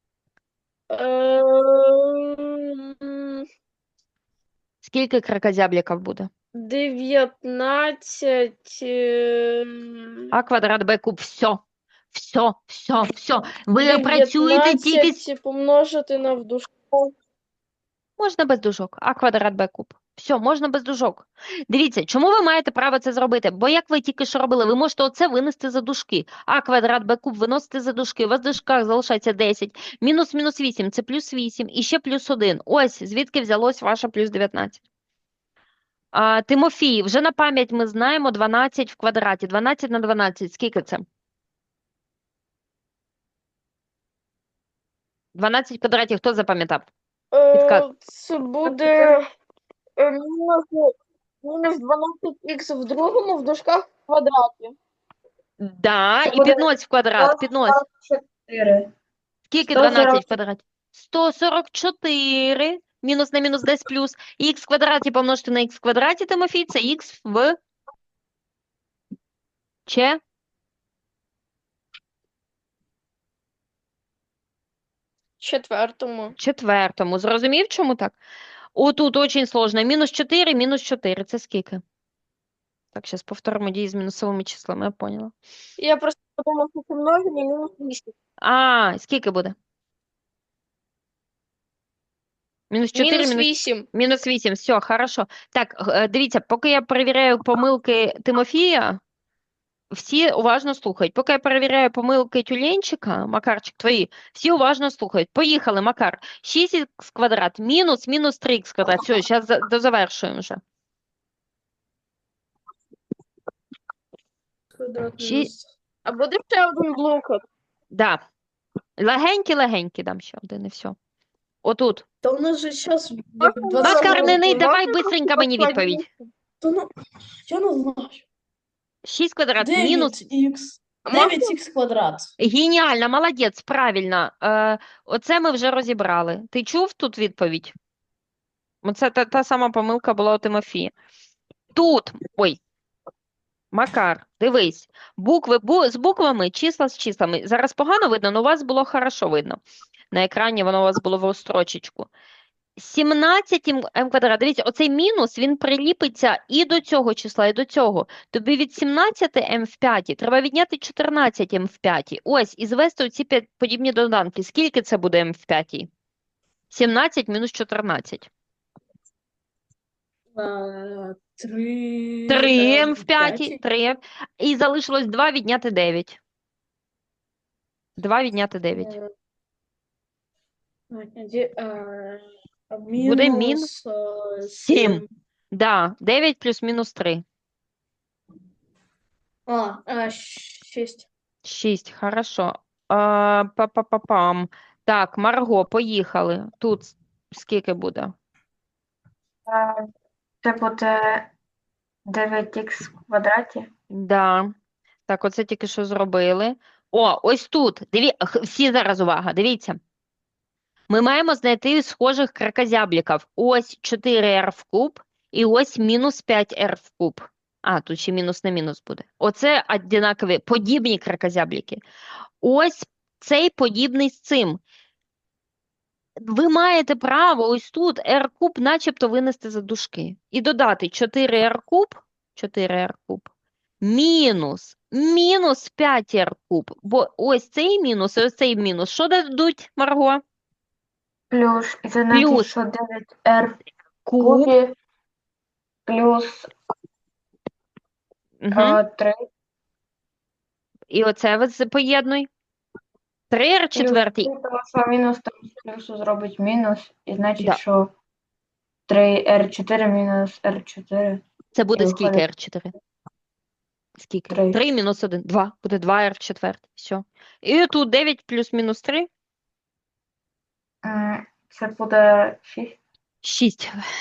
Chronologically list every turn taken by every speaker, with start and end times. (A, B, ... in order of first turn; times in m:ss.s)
0:00.9-0:03.4 A
0:04.8-0:06.3 B
0:06.6-0:10.3 A
0:10.3-0:11.6 B
0:12.1-0:15.2 B
0:13.8-0:17.1 A
0:18.2-0:34.8 B
0:36.1-0:41.0 B
0:45.4-0:46.9 B
0:47.3-0:49.3 A
0:47.5-0:47.9 B
0:48.6-0:49.2 C
0:50.0-0:54.8 A
0:55.6-0:57.8 B
0:56.2-0:56.7 C
0:57.2-0:58.9 C
0:59.5-1:07.6 B
0:59.7-1:00.3 C
1:09.9-1:10.2 B
1:15.4-1:16.4 A
1:16.4-1:18.2 B
1:18.8-1:21.8 B
1:22.9-1:25.3 B
1:25.8-1:28.1 A
1:28.4-1:29.6 B
1:32.7-1:39.0 B
1:33.0-1:33.9 A
1:39.9-1:50.6 B
1:54.7-1:55.7 D
1:55.2-1:55.5 B
1:56.0-1:57.4 A
1:57.9-1:58.2 B
1:59.0-2:01.0 B
2:01.6-2:02.0 B
2:02.2-2:04.7 D
2:03.4-2:06.1 A
2:03.8-2:06.0 B
2:06.6-2:06.9 D
2:07.5-2:08.2 D
2:09.0-2:10.2 B
2:09.6-2:12.3 D
2:11.1-2:11.6 A
2:12.4-2:17.8 B
2:18.8-2:20.9 B
2:21.8-2:22.6 B
2:23.7-2:29.6 B
2:30.1-2:32.1 B
2:32.8-2:45.9 B
2:46.7-2:48.3 B
2:50.3-2:53.6 D
2:52.3-2:56.2 B
2:58.0-2:59.0 B
2:58.8-2:59.1 D
3:00.9-3:05.1 D
3:03.0-3:03.7 B
3:04.6-3:07.2 B
3:09.5-3:11.1 D
3:11.4-3:18.2 B
3:19.5-3:19.9 C
3:20.4-3:21.3 C
3:22.1-3:23.7 C
3:23.9-3:24.5 B
3:25.1-3:29.8 B
3:30.9-3:41.8 B
3:42.4-3:44.6 B
3:46.2-3:53.3 B
3:53.8-4:00.2 B
4:01.3-4:03.6 C
4:02.1-4:02.5 B
4:04.0-4:04.5 B
4:04.2-4:04.8 C
4:05.9-4:06.5 C
4:08.4-4:08.8 B
4:08.5-4:09.3 C
4:10.9-4:12.3 B
4:13.3-4:14.3 B
4:13.8-4:17.9 C
4:18.9-4:21.2 C
4:21.6-4:22.7 B
4:21.8-4:22.2 C
4:24.0-4:29.1 B
4:24.3-4:24.6 C
4:30.8-4:32.8 C
4:33.2-4:33.7 B